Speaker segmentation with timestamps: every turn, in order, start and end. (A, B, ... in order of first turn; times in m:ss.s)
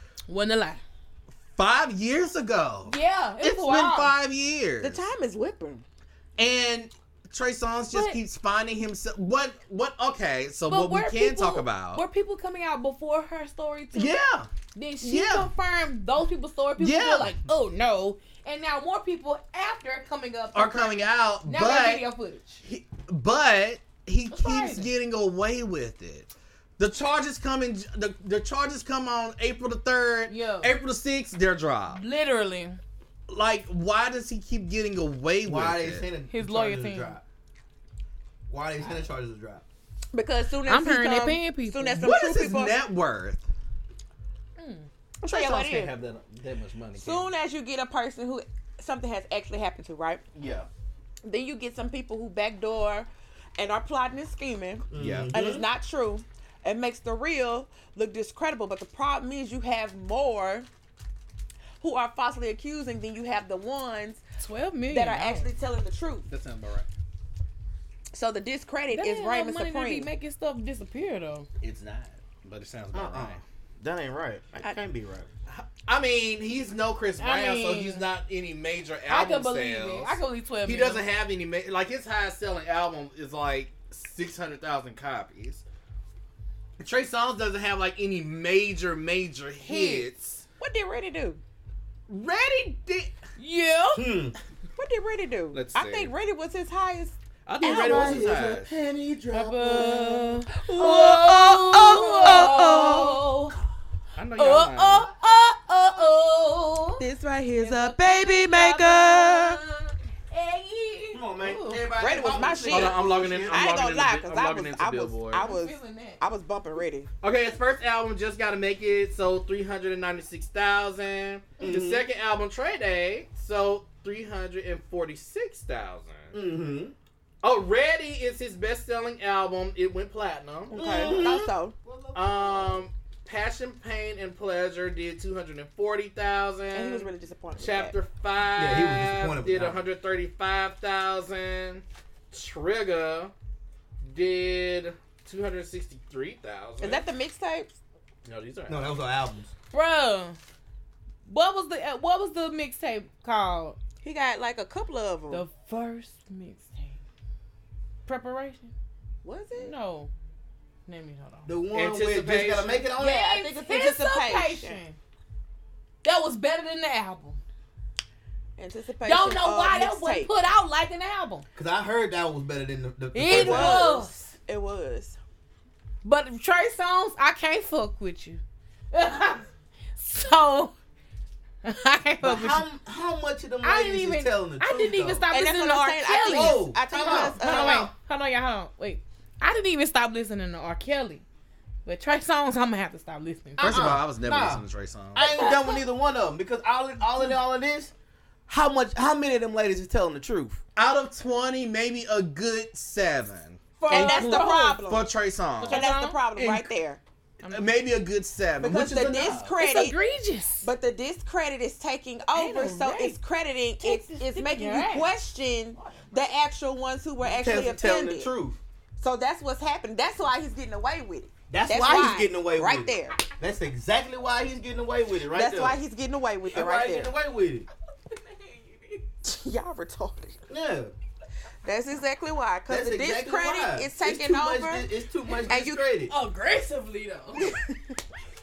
0:00.3-0:00.8 A
0:01.5-0:05.1 B
0:02.9-0:04.1 A
0:04.8-0:05.8 C
0:06.4-0:12.0 B
0:07.9-0:08.2 A
0:10.7-0:14.1 A
0:13.9-0:14.5 B
0:14.7-0:22.6 A
0:15.0-0:15.5 B
0:16.8-0:17.4 B
0:20.5-0:22.0 B
0:22.6-0:32.0 B
0:24.3-0:24.9 A
0:30.3-0:30.7 A
0:31.9-0:32.8 A
0:33.3-0:36.0 B
0:35.4-0:37.2 D
0:36.3-0:37.2 A
0:38.5-0:39.6 D
0:40.1-0:42.8 C
0:40.6-0:42.0 A
0:41.9-0:43.4 B
0:44.6-0:44.9 A
0:45.2-0:45.9 C
0:45.2-0:47.3 B
0:47.0-0:50.2 C
0:50.3-0:50.7 B
0:51.2-1:00.7 C
0:54.9-0:55.6 D
0:55.0-0:55.3 B
1:01.8-1:04.2 C
1:04.4-1:05.5 A
1:04.9-1:06.3 C
1:06.3-1:06.9 B
1:08.1-1:10.1 C
1:08.9-1:11.5 A
1:11.6-1:13.4 B
1:12.9-1:15.3 D
1:15.5-1:25.6 B
1:17.2-1:18.0 A
1:19.1-1:21.0 A
1:26.8-1:30.4 B
1:29.6-1:30.0 A
1:30.6-1:31.4 C
1:32.1-1:33.1 B
1:33.4-1:34.1 A
1:33.9-1:34.3 D
1:34.8-1:38.3 C
1:35.5-1:36.1 B
1:37.4-1:38.7 B
1:37.6-1:40.4 D
1:39.3-1:43.6 A
1:40.6-1:43.2 C
1:44.2-1:45.1 B
1:44.4-1:47.0 A
1:47.0-1:49.6 C
1:47.6-1:52.5 A
1:51.1-1:53.8 D
1:52.0-1:57.1 C
1:52.7-1:55.5 B
1:55.4-1:56.2 A
1:57.2-2:06.3 B
2:01.6-2:02.0 D
2:06.3-2:06.9 D
2:07.4-2:11.2 B
2:10.7-2:12.8 D
2:10.7-2:11.7 C
2:12.1-2:23.3 B
2:16.7-2:18.0 C
2:18.6-2:19.8 D
2:24.0-2:27.0 B
2:26.8-2:27.8 C
2:28.2-2:28.9 B
2:28.7-2:29.5 D
2:29.7-2:30.4 A
2:31.2-2:33.8 A
2:34.0-2:35.4 C
2:35.3-2:37.0 A
2:38.0-2:38.7 A
2:39.2-2:39.7 C
2:39.6-2:40.1 A
2:40.9-2:41.5 A
2:41.4-2:43.3 D
2:41.7-2:42.9 B
2:43.0-2:45.0 A
2:43.0-2:44.8 C
2:46.0-2:47.4 A
2:48.6-2:50.3 C
2:49.0-2:51.4 A
2:51.6-2:53.9 D
2:53.1-2:54.3 A
2:53.3-2:55.2 C
2:56.0-2:58.4 A
2:58.9-3:00.7 A
3:01.6-3:02.7 A
3:02.2-3:05.2 D
3:03.6-3:11.2 A
3:05.3-3:07.9 C
3:06.2-3:07.9 D
3:11.8-3:14.0 A
3:13.6-3:15.5 B
3:13.6-3:17.9 D
3:18.5-3:20.6 D
3:20.8-3:26.7 B
3:23.8-3:25.1 C
3:23.9-3:24.8 A
3:25.6-3:26.2 A
3:25.6-3:27.0 C
3:27.4-3:27.7 A
3:27.5-3:29.5 B
3:28.6-3:30.0 C
3:29.6-3:30.7 A
3:30.6-3:38.3 C
3:32.3-3:33.2 A
3:33.8-3:35.1 A
3:37.2-3:38.6 D
3:39.0-3:43.2 C
3:41.5-3:45.8 D
3:45.3-3:47.1 C
3:46.5-3:47.7 D
3:48.1-3:49.0 A
3:49.2-3:50.4 C
3:50.5-3:50.9 D
3:51.6-3:55.8 C
3:52.7-3:56.1 D
3:56.1-3:57.6 A